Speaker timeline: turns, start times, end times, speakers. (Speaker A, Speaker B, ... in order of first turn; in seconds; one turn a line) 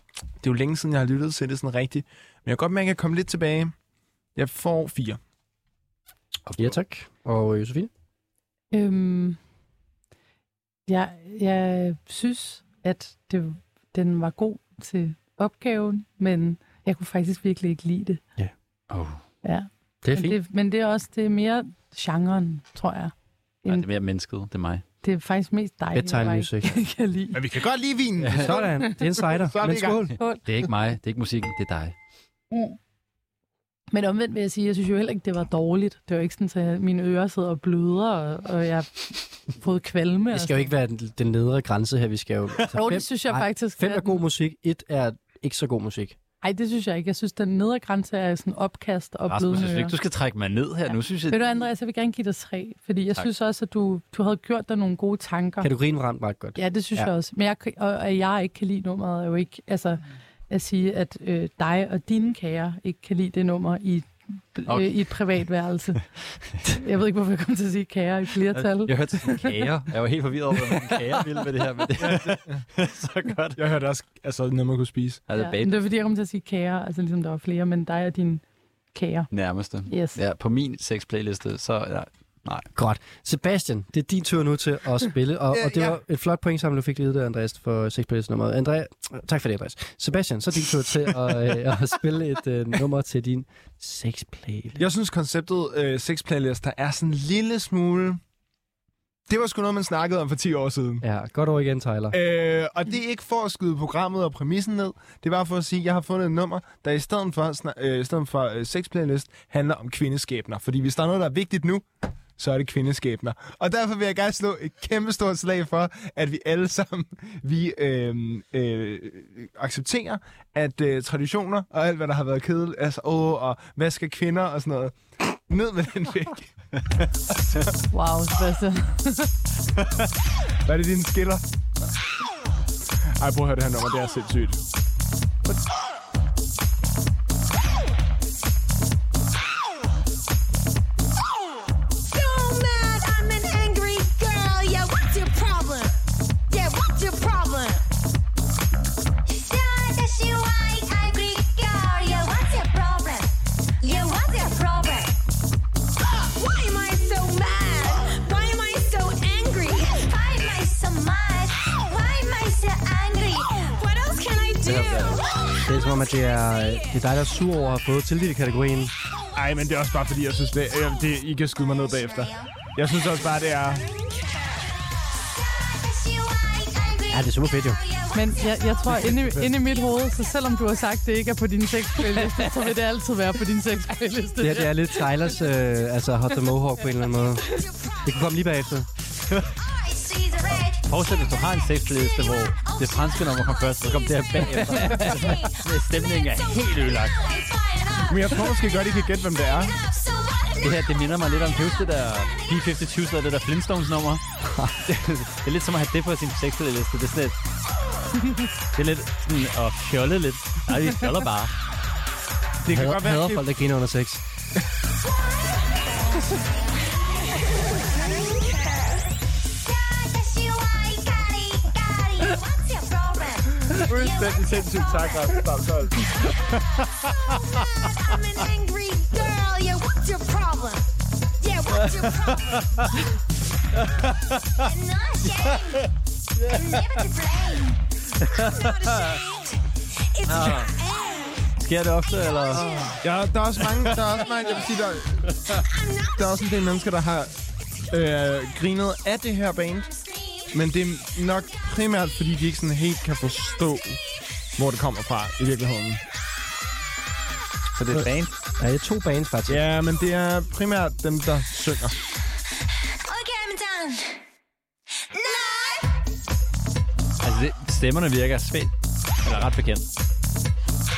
Speaker A: 0.4-3.7
Speaker A: 4.4-5.2
Speaker B: 6.5-6.7
Speaker C: 6.6-7.9
Speaker D: 8.7-9.4
Speaker D: 10.9-18.2
Speaker B: 18.9-19.2
Speaker D: 19.4-23.1
Speaker C: 20.0-20.4
Speaker B: 23.7-24.8
Speaker D: 25.0-27.4
Speaker C: 25.9-26.8
Speaker A: 27.3-30.1
Speaker B: 28.2-28.5
Speaker C: 28.3-30.1
Speaker B: 30.4-31.9
Speaker D: 33.9-40.7
Speaker C: 40.3-46.2
Speaker D: 42.7-44.2
Speaker D: 46.4-50.0
Speaker B: 49.3-51.4
Speaker D: 51.3-55.7
Speaker C: 55.6-57.1
Speaker D: 56.6-66.0
Speaker D: 66.7-69.3
Speaker B: 68.5-73.6
Speaker A: 72.0-72.6
Speaker A: 73.6-75.2
Speaker B: 75.3-75.8
Speaker D: 75.3-78.4
Speaker D: 78.9-79.3
Speaker B: 79.3-82.7
Speaker D: 79.9-80.2
Speaker C: 82.8-94.8
Speaker A: 85.5-86.0
Speaker A: 94.8-98.2
Speaker A: 99.3-101.0
Speaker C: 101.0-102.2
Speaker A: 102.1-111.8
Speaker A: 112.4-126.5
Speaker A: 127.4-127.8
Speaker D: 127.9-129.3
Speaker A: 130.7-131.4
Speaker A: 133.2-134.6
Speaker E: 144.6-145.9
Speaker E: 146.6-147.6
Speaker E: 149.5-155.2
Speaker E: 156.2-165.2
Speaker B: 164.6-165.3
Speaker C: 165.7-168.9
Speaker A: 169.3-173.8
Speaker E: 175.7-177.2
Speaker C: 177.1-177.8
Speaker E: 177.7-178.1
Speaker D: 178.1-184.8
Speaker C: 184.4-187.5
Speaker C: 188.0-188.9
Speaker B: 189.2-189.5
Speaker E: 189.8-190.8
Speaker B: 190.8-197.2
Speaker C: 194.6-195.3
Speaker E: 196.2-198.2
Speaker A: 198.1-199.8
Speaker E: 199.7-200.6
Speaker B: 200.6-204.2
Speaker B: 204.8-207.4
Speaker B: 208.8-211.5
Speaker A: 212.6-213.4
Speaker C: 212.7-214.2
Speaker E: 219.9-223.4
Speaker A: 223.7-226.1
Speaker E: 224.0-225.1
Speaker E: 228.7-229.9
Speaker B: 231.7-232.9
Speaker B: 233.8-234.7
Speaker E: 234.9-235.3
Speaker B: 235.3-235.8
Speaker B: 236.4-237.1
Speaker E: 237.1-237.6
Speaker B: 238.2-239.2
Speaker B: 240.3-240.8
Speaker B: 241.6-242.9
Speaker A: 243.0-245.3
Speaker B: 243.6-244.2
Speaker B: 245.3-245.6
Speaker A: 246.2-247.3
Speaker A: 247.9-249.9
Speaker A: 250.5-254.0
Speaker A: 254.6-256.0
Speaker B: 257.8-258.3
Speaker C: 257.9-259.6
Speaker A: 259.5-262.0
Speaker E: 263.2-263.8
Speaker B: 267.2-268.7
Speaker B: 269.2-269.9